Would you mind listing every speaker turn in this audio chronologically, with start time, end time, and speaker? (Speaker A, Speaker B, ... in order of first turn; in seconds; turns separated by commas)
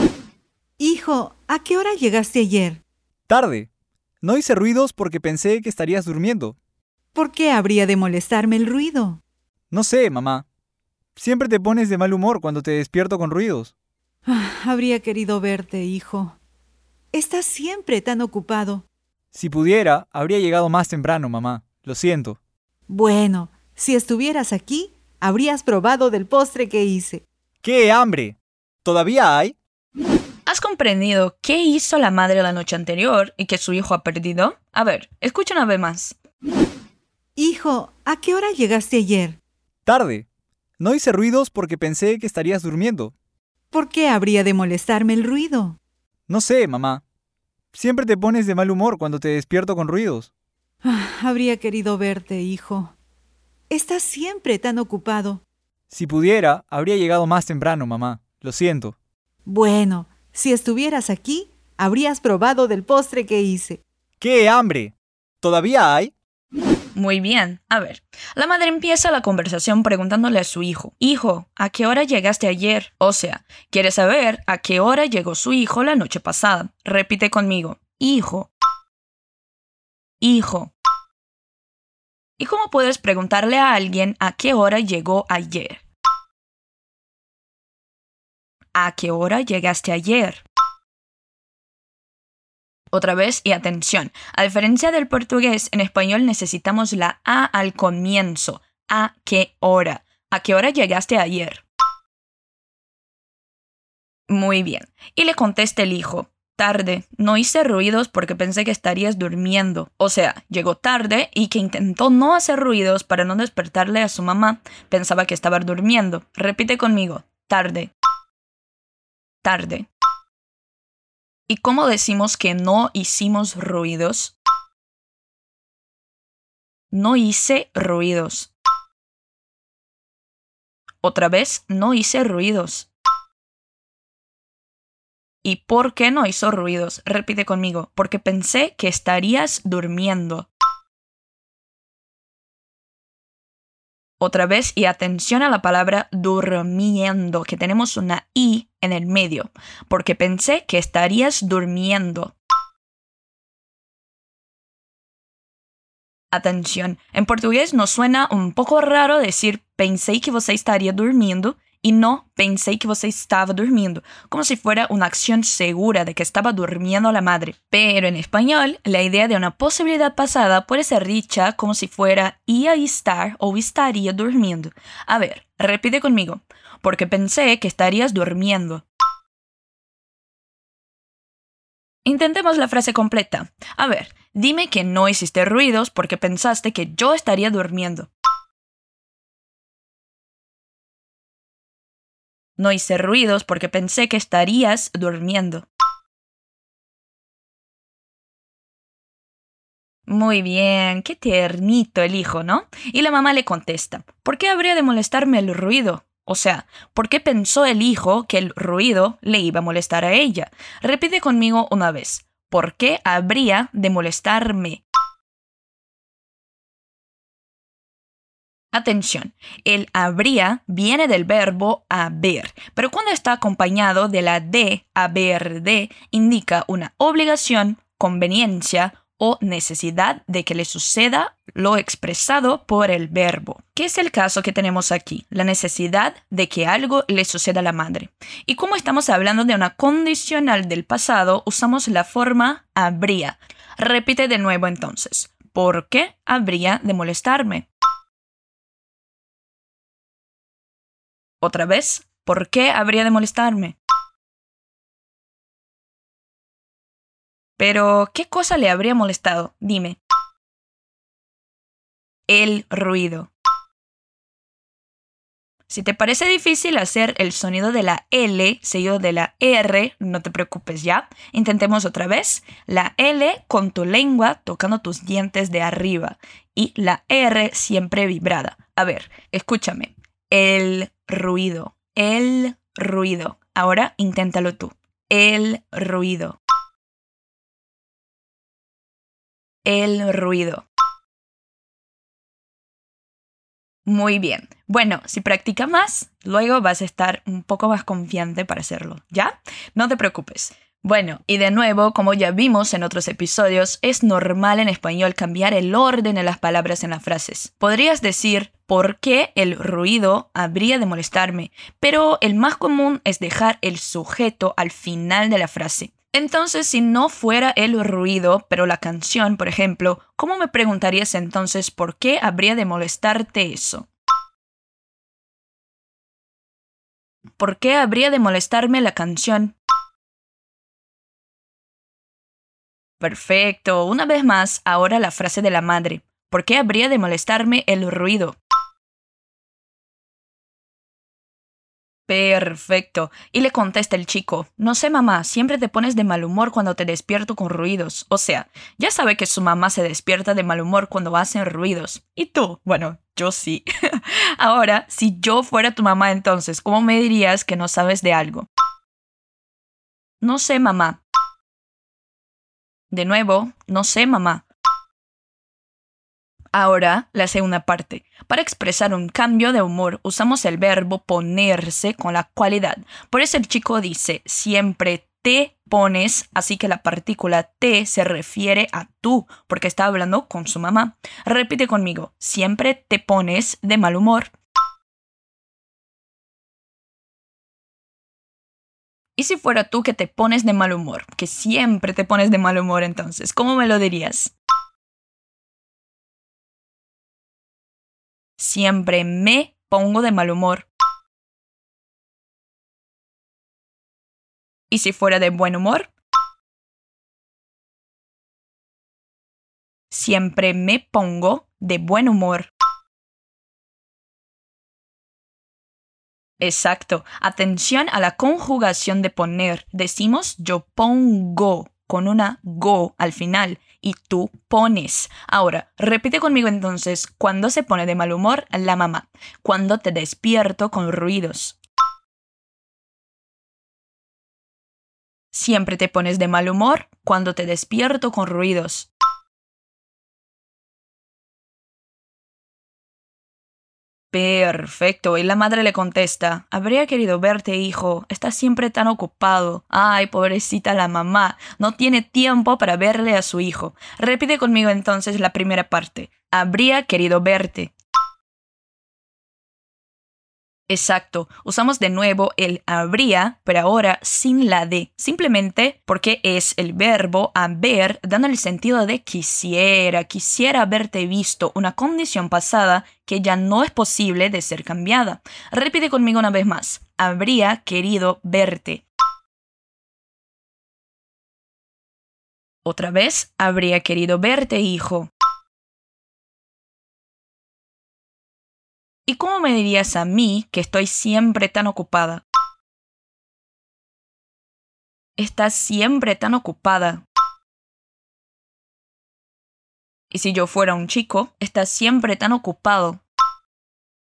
Speaker A: 0.8-2.8, Speaker B: 3.3-3.7, Speaker B: 4.2-6.5, Speaker A: 7.1-9.2, Speaker B: 9.7-10.4, Speaker B: 11.2-13.7, Speaker A: 14.2-16.4, Speaker A: 17.1-18.8, Speaker B: 19.3-22.4, Speaker A: 22.9-27.2, Speaker B: 27.6-29.6, Speaker C: 30.5-36.2, Speaker A: 37.4-39.4, Speaker B: 39.9-40.2, Speaker B: 40.8-43.1, Speaker A: 43.7-45.8, Speaker B: 46.3-47.0, Speaker B: 47.7-50.3, Speaker A: 50.8-52.9, Speaker A: 53.7-55.4, Speaker B: 55.9-59.0, Speaker A: 59.5-63.8, Speaker B: 64.2-66.1, Speaker C: 66.9-78.5, Speaker C: 80.2-80.7, Speaker C: 82.4-85.8, Speaker C: 88.7-90.4, Speaker C: 92.9-101.6, Speaker C: 104.3-117.9, Speaker C: 119.4-119.9, Speaker C: 121.5-124.3, Speaker C: 126.9-128.5, Speaker C: 131.0-132.9, Speaker C: 135.4-140.5, Speaker C: 144.2-152.3, Speaker C: 156.3-178.8, Speaker C: 182.0-188.1, Speaker C: 192.6-195.7, Speaker C: 200.1-214.8, Speaker C: 218.7-247.7, Speaker C: 251.4-253.8, Speaker C: 257.6-260.0, Speaker C: 262.3-263.3, Speaker C: 265.7-286.4, Speaker C: 289.6-290.6, Speaker C: 293.9-323.9, Speaker C: 327.4-329.6, Speaker C: 333.0-338.4, Speaker C: 342.1-358.5, Speaker C: 360.2-361.0, Speaker C: 362.9-364.4, Speaker C: 366.5-384.3, Speaker C: 389.2-394.3, Speaker C: 398.4-400.7, Speaker C: 404.7-405.9, Speaker C: 409.9-412.5, Speaker C: 416.4-431.6, Speaker C: 435.3-438.9, Speaker C: 444.1-457.7, Speaker C: 460.7-478.8, Speaker C: 482.6-485.1, Speaker C: 489.1-492.2, Speaker C: 495.2-497.0, Speaker C: 500.1-503.0